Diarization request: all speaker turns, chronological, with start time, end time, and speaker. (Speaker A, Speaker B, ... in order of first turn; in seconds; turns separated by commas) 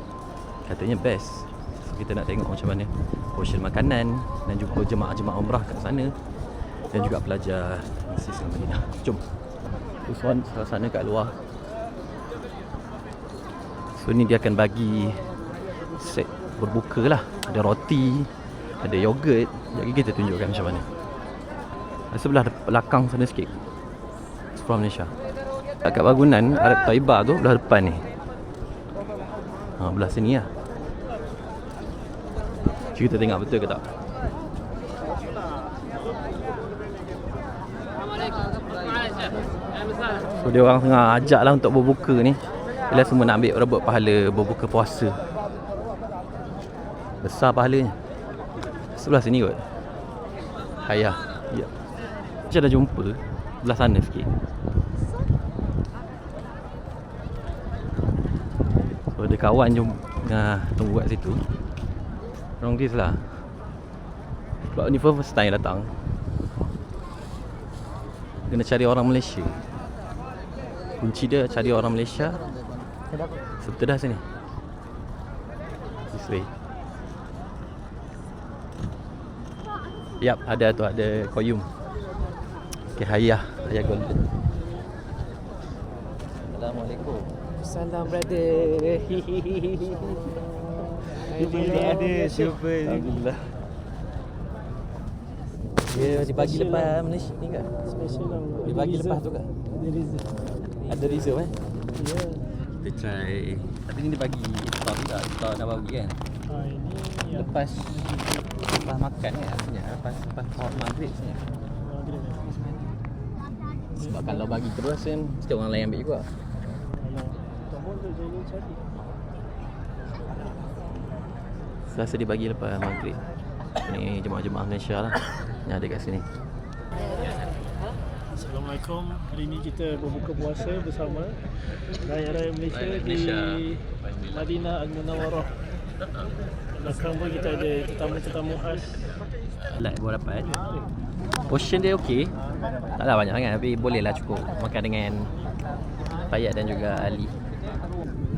Speaker A: 0.6-9.2, Speaker A: 10.0-11.4, Speaker A: 13.9-20.9, Speaker A: 22.1-23.6, Speaker A: 24.5-25.1, Speaker A: 25.8-28.1, Speaker A: 29.8-30.5, Speaker A: 32.9-33.9, Speaker A: 40.4-45.2, Speaker A: 47.2-48.0, Speaker A: 48.9-49.7, Speaker A: 50.8-51.7, Speaker A: 52.5-54.3, Speaker A: 59.1-61.5, Speaker A: 62.6-63.5, Speaker A: 64.6-66.1, Speaker A: 68.5-69.7, Speaker A: 71.0-72.5, Speaker A: 73.6-74.3, Speaker A: 76.1-76.5, Speaker A: 80.2-81.7, Speaker A: 82.9-84.3, Speaker A: 86.4-87.3, Speaker B: 87.7-89.1, Speaker A: 91.1-93.6, Speaker B: 91.5-92.0, Speaker A: 95.8-97.7, Speaker B: 98.0-98.7, Speaker A: 98.6-99.5, Speaker B: 99.8-100.3, Speaker A: 100.7-101.6, Speaker B: 102.0-102.5, Speaker A: 102.8-106.2, Speaker B: 106.5-107.3, Speaker A: 107.2-111.5, Speaker B: 112.0-112.4, Speaker A: 113.9-116.3, Speaker B: 117.0-118.8, Speaker A: 121.9-123.2, Speaker A: 123.8-126.3, Speaker B: 128.4-135.6, Speaker A: 132.7-134.5, Speaker B: 136.8-139.0, Speaker A: 139.6-140.6, Speaker A: 141.5-142.3, Speaker A: 143.0-145.3, Speaker A: 146.3-147.4